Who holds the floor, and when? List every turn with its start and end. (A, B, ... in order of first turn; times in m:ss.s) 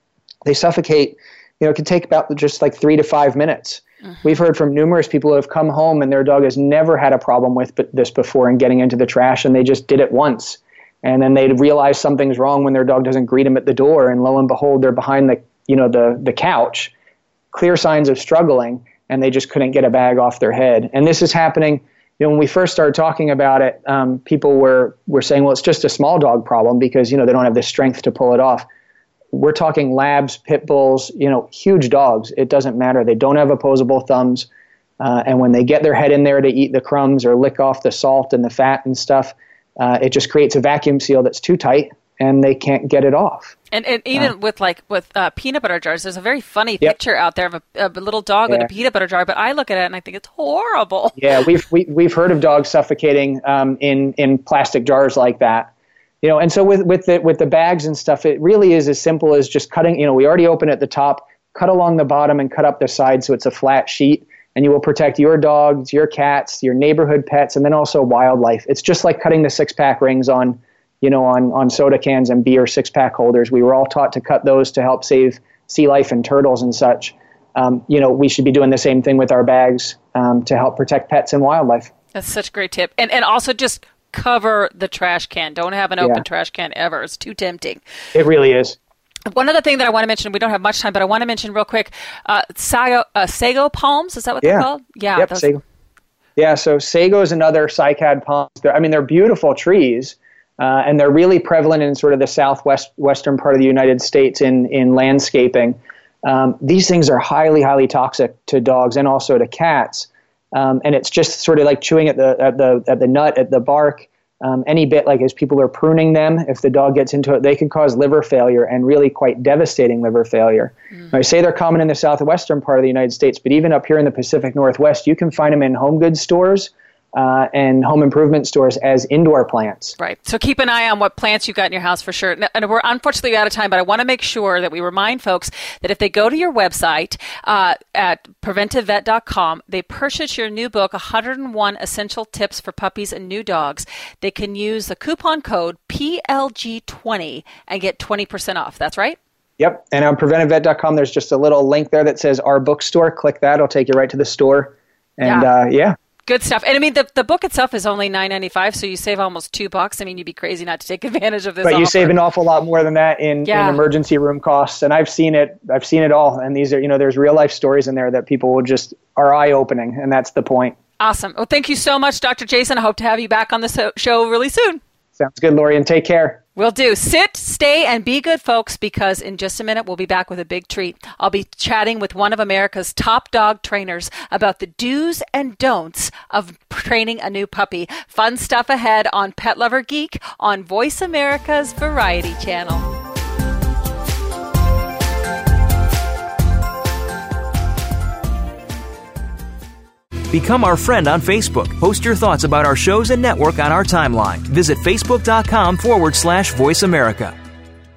0:00.4-0:16.9 A
0:17.5-0:28.6 A
0:29.3-0:34.5 A
0:35.0-0:43.5 A
0:43.7-0:51.2 B
0:51.2-1:21.9 A
1:22.1-1:27.8 B
1:26.0-1:26.2 A
1:28.1-1:28.8 A
1:29.3-1:35.5 B
1:34.4-1:35.6 A
1:36.4-2:10.0 A
2:10.0-2:29.2 B
2:29.6-2:36.0 A
2:35.2-2:35.5 B
2:36.3-2:42.2 B
2:41.6-2:50.8 A
2:43.4-2:43.8 B
2:51.0-2:54.8 B
2:55.2-2:56.4 A
2:56.6-3:12.9 B
3:20.3-3:27.4 C